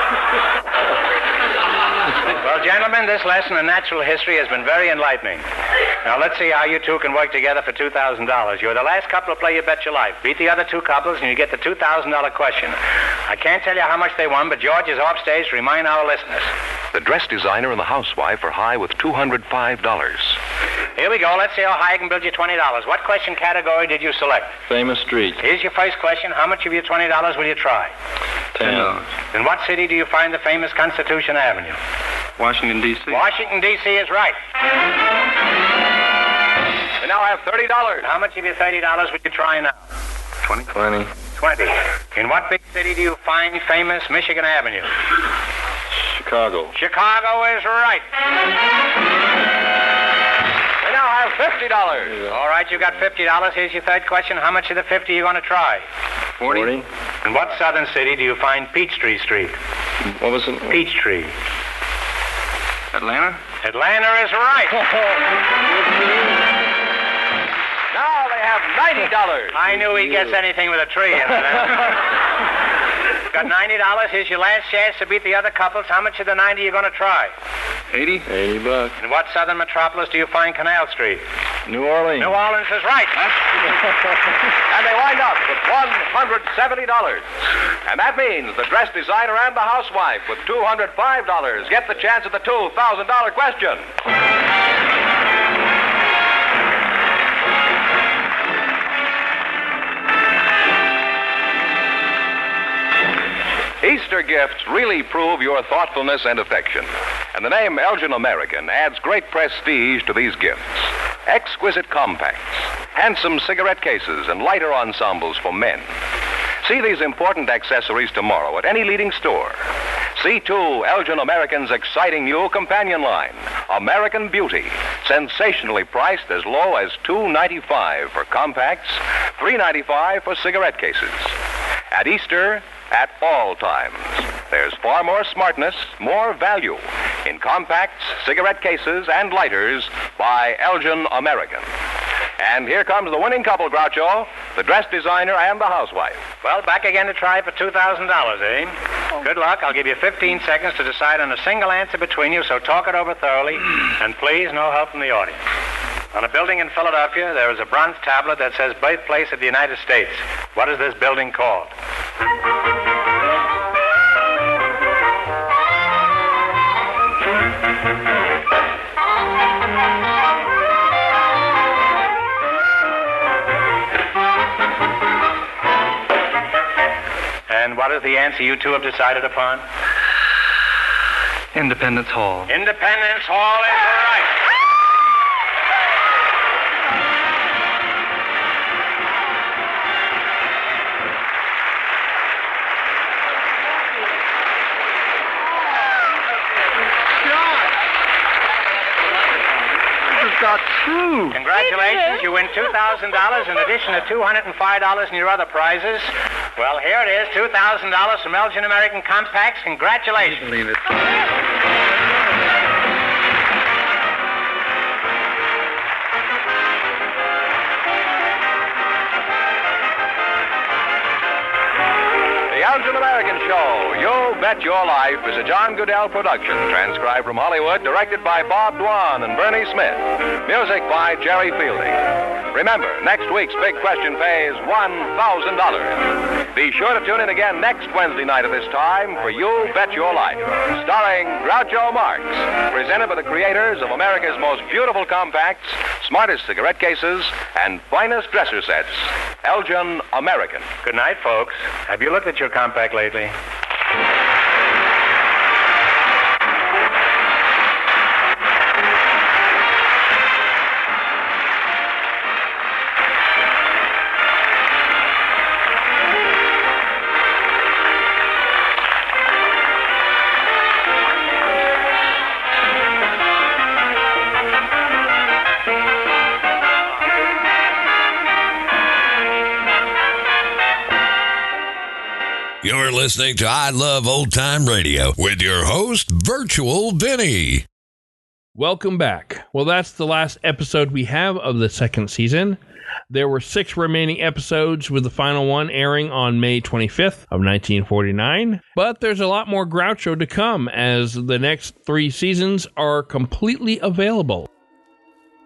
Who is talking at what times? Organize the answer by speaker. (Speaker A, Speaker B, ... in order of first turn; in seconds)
Speaker A: 2.3-5.4, 6.0-16.5, 21.0-24.6, 25.4-27.9, 29.3-31.8, 33.1-34.4, 38.0-39.8, 41.4-44.9, 46.7-48.0, 52.3-55.8, 57.2-59.5, 60.7-61.3, 63.6-64.8, 69.5-72.0, 73.3-77.3, 79.0-81.2, 82.2-83.3, 146.4-155.4, 156.1-161.7, 177.5-179.6, 182.5-184.3, 201.3-210.5, 250.8-253.3
Speaker B: 16.9-20.4, 37.0-38.1, 50.8-52.2, 67.9-69.6, 84.7-87.2, 87.9-93.8, 103.8-115.9, 116.6-119.6, 120.2-131.3, 131.9-141.7, 142.4-146.2, 222.5-232.0, 232.5-250.7
Speaker C: 24.7-25.4, 28.5-29.0, 40.7-41.1, 46.1-46.7, 56.4-56.8, 60.2-60.8, 65.7-66.3, 69.8-70.3, 78.2-78.9, 81.7-82.4
Speaker D: 28.6-29.0, 32.4-33.2, 40.4-40.7, 56.4-56.8, 62.9-63.4, 77.9-78.3, 181.5-182.5, 200.4-200.8
Speaker E: 282.6-287.6
Speaker F: 288.6-292.6, 293.1-304.5